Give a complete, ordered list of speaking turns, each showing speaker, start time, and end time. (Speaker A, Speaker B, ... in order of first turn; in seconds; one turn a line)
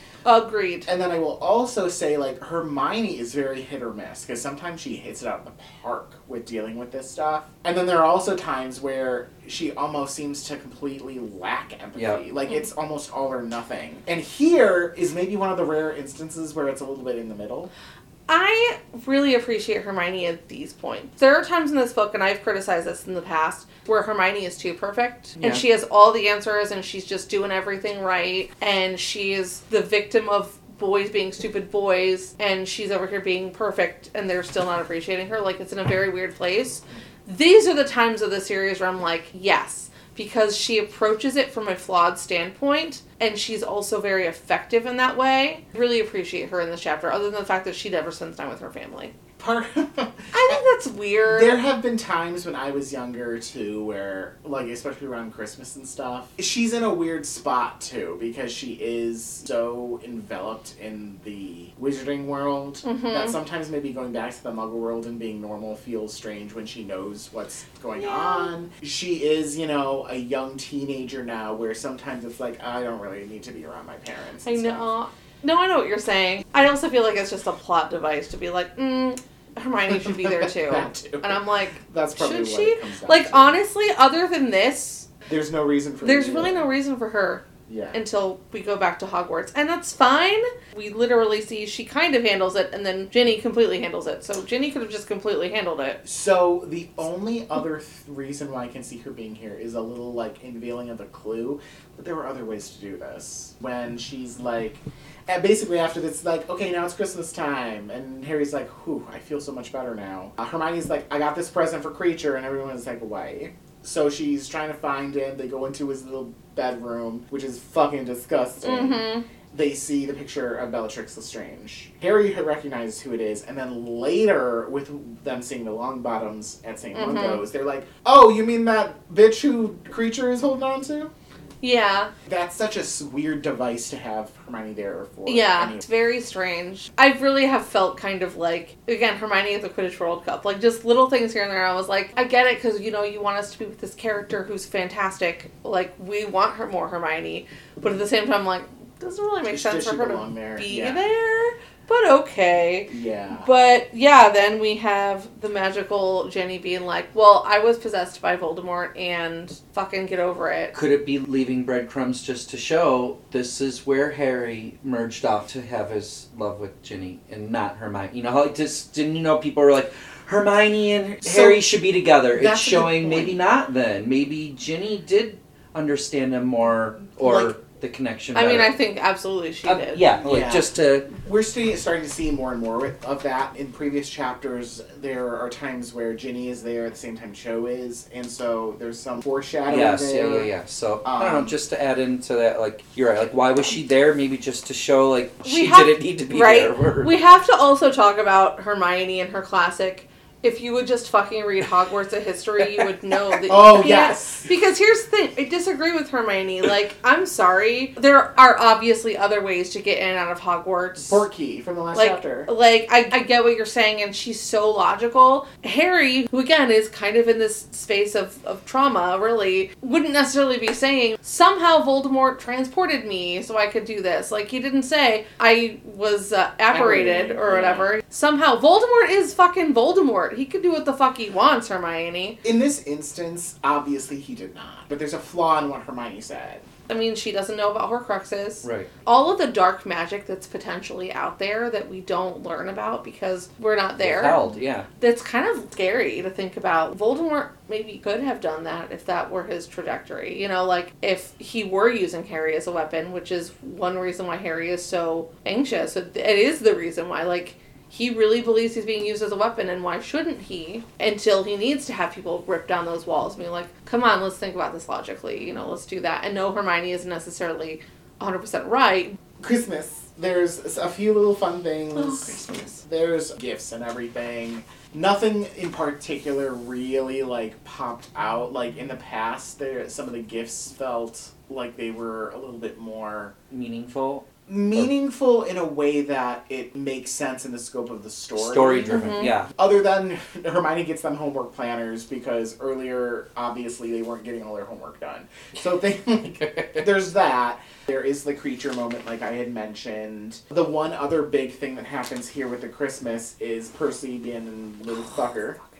Speaker A: 0.2-0.9
Speaker B: 0.9-17.7
Speaker C: 11.9-12.2
Speaker A: 18.3-49.1
Speaker B: 49.4-50.6
Speaker A: 50.3-51.6
Speaker B: 51.3-74.9
Speaker A: 62.8-63.4
Speaker A: 67.9-68.5
Speaker A: 74.4-85.1
Speaker B: 79.9-83.6
Speaker B: 85.3-86.7
Speaker A: 86.0-96.0
Speaker B: 87.7-88.0
Speaker B: 96.0-131.1
Speaker A: 118.6-119.2
Speaker A: 126.9-127.4
Speaker A: 131.6-132.1
Speaker B: 132.3-135.8
Speaker A: 135.2-160.7
Speaker B: 149.5-151.0
Speaker B: 152.9-153.5
Speaker C: 160.7-178.7
Speaker B: 171.2-171.6
Speaker B: 172.3-173.4
Speaker B: 177.2-177.5
Speaker A: 178.3-180.0
Speaker C: 179.6-181.1
Speaker B: 180.2-190.5
Speaker C: 189.7-197.1
Speaker B: 191.0-191.5
Speaker A: 195.4-211.2
Speaker B: 203.5-204.5
Speaker B: 211.0-212.5
Speaker A: 211.9-232.4
Speaker B: 226.7-227.9
Speaker B: 232.4-236.7
Speaker A: 236.9-269.2
Speaker C: 238.6-238.9
Speaker C: 244.0-244.9
Speaker B: 269.4-283.3
Speaker A: 272.0-272.8
Speaker C: 283.5-284.9
Speaker B: 284.5-305.6
Speaker C: 288.4-289.5
Speaker A: 288.9-289.3